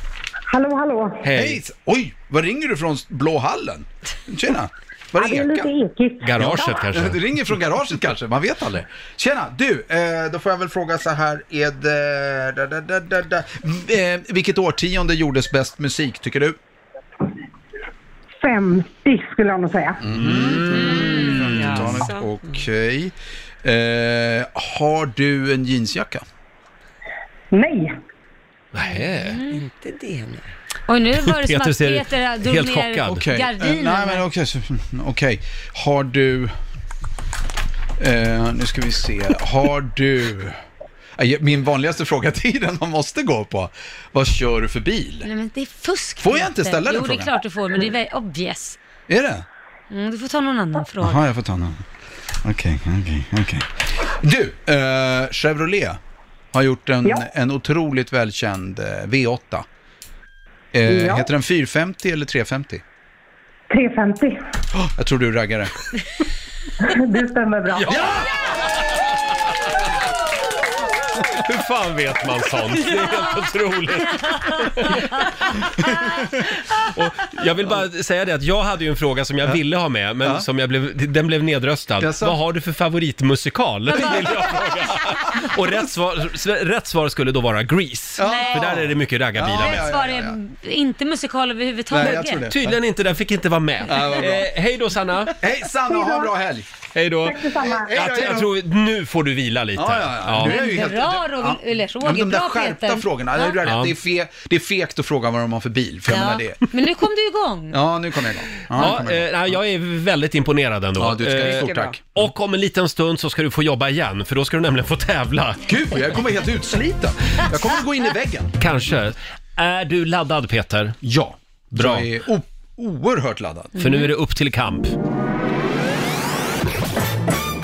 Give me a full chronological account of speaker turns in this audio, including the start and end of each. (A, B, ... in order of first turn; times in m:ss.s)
0:00.5-0:01.2 A
0:01.2-0:01.6 B
0:01.3-0:05.7 C
0:05.2-0:06.5 A
0:06.2-0:07.2 B
0:06.4-0:16.6 C
0:18.4-0:20.0 A
0:20.0-0:26.2 C
0:20.1-0:22.0 B
0:20.7-0:21.5 D
0:21.5-0:22.3 E
0:27.5-0:28.0 A
0:28.7-0:29.4 B
0:29.2-0:29.6 D
0:29.5-0:30.4 E
0:30.9-0:34.2 D
0:31.2-0:33.2 B
0:33.1-0:36.5 C
0:38.0-0:40.6 C
0:41.2-0:45.3 C
0:45.2-0:48.8 D
0:46.2-0:47.3 C
0:49.1-0:49.4 C
0:49.9-0:51.2 D
0:51.0-0:51.8 C
0:52.4-0:56.0 C
0:56.5-0:59.6 C
1:00.7-1:02.8 C
1:00.8-1:01.3 A
1:03.7-1:04.4 A
1:04.7-1:05.7 C
1:06.8-1:08.1 A
1:07.8-1:09.0 B
1:07.9-1:08.3 C
1:11.3-1:15.3 B
1:15.8-1:16.2 C
1:16.8-1:29.8 B
1:22.0-1:22.4 C
1:28.2-1:30.4 C
1:28.2-1:28.6 D
1:29.5-1:32.4 D
1:31.9-1:32.8 C
1:32.4-1:35.3 B
1:33.9-1:34.5 C
1:35.4-1:36.6 C
1:35.9-1:36.3 A
1:36.9-1:40.5 B
1:37.2-1:37.9 A
1:37.5-1:38.5 C
1:39.7-1:46.6 C
1:40.4-1:43.5 D
1:43.6-1:43.9 B
1:46.1-1:47.8 D
1:47.7-1:49.6 C
1:48.7-1:55.7 B
1:51.0-1:52.3 C
1:51.4-1:51.9 E
1:55.7-1:58.6 C
1:58.6-2:01.0 B
2:01.0-2:03.8 C
2:01.7-2:02.1 B
2:03.8-2:04.1 D
2:03.8-2:04.9 B